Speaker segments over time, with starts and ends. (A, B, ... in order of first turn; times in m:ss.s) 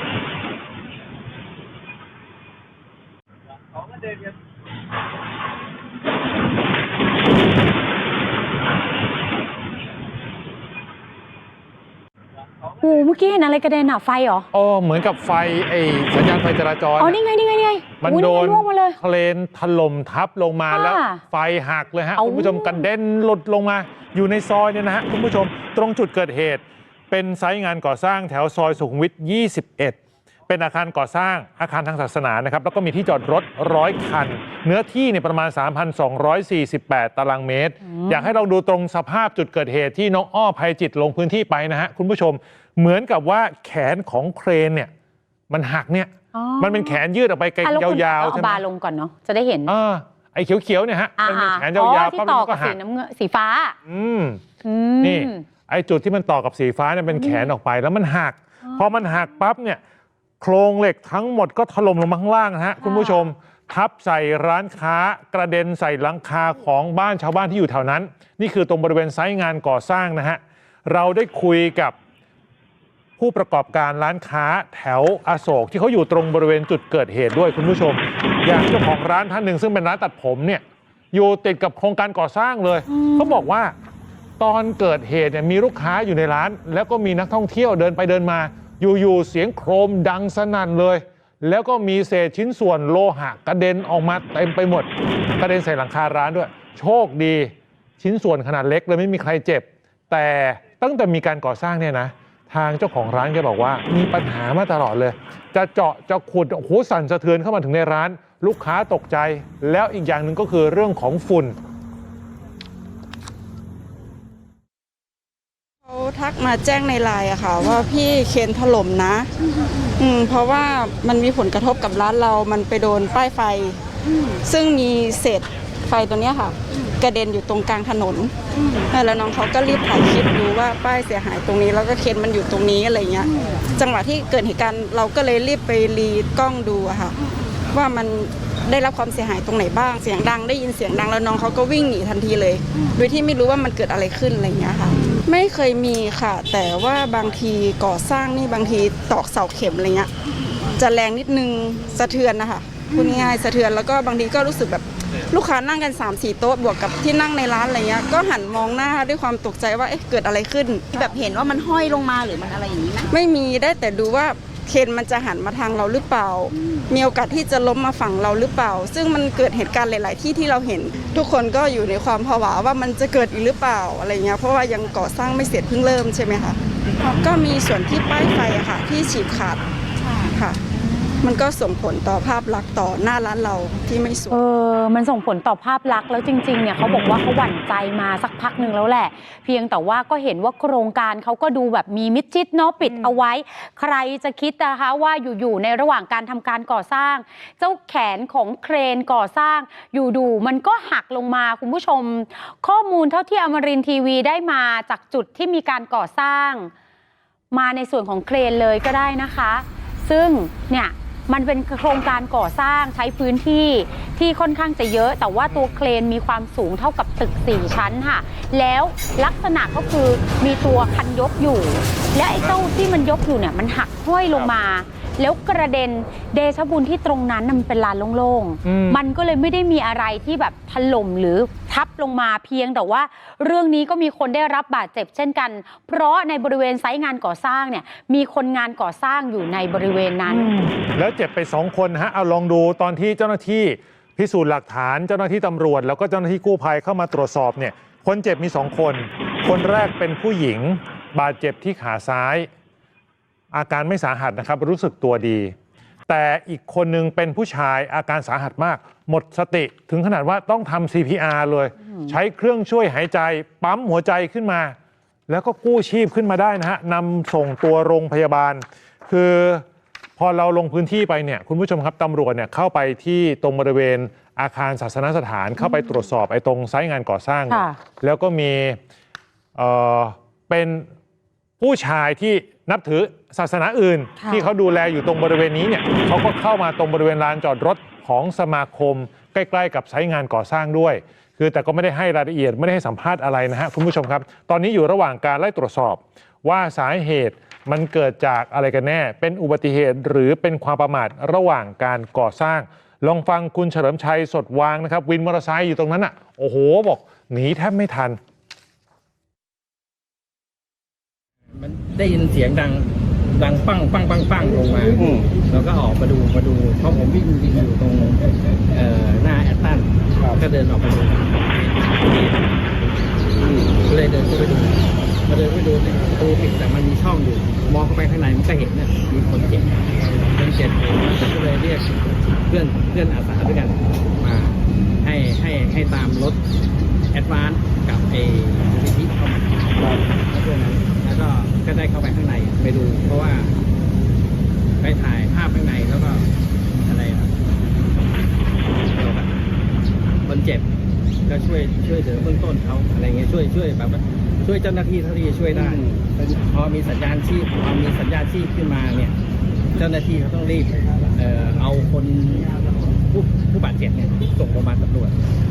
0:12.8-0:14.5 A
0:14.5-0:17.2 B
0:17.0-0:19.0 A
0:18.0-0:44.9 B
0:20.7-0:21.2 A
0:22.2-0:22.9 A
0:37.8-0:38.3 A
0:45.5-0:48.6 B
0:46.3-0:47.0 A
0:47.6-0:49.7 A
0:49.7-0:52.8 B
0:51.2-0:53.8 A
0:53.9-0:54.4 B
0:54.6-0:55.4 A
0:55.0-0:59.8 B
0:57.1-0:57.5 A
1:00.4-1:12.0 B
1:02.8-1:03.3 A
1:13.2-1:23.8 B
1:22.9-1:23.5 A
1:24.4-1:51.6 B
1:55.8-1:59.3 C
2:00.0-2:30.1 C
2:30.7-2:40.9 C
2:40.9-2:43.1 D
2:43.1-2:59.6 C
3:00.3-3:00.6 C
3:01.2-3:04.4 C
3:04.3-3:26.7 A
3:06.8-3:07.2 B
3:12.9-3:13.2 B
3:27.5-4:00.5 A
3:35.5-3:35.9 B
3:42.3-3:42.6 B
3:48.6-3:49.0 B
4:00.3-4:12.5 B
4:13.5-4:15.5 B
4:16.1-4:24.8 B
4:21.8-4:22.1 A
4:25.3-4:29.6 B
4:30.2-4:38.8 B
4:37.5-4:37.8 A
4:39.6-4:40.9 B
4:41.6-5:08.2 B
4:44.2-4:44.5 A
5:11.5-5:23.1 E
5:23.8-5:36.4 E
5:37.1-5:43.6 E
5:44.8-5:47.3 E
5:48.9-5:49.3 E
5:50.3-5:50.7 E
5:51.3-5:59.1 E
5:59.8-6:05.2 E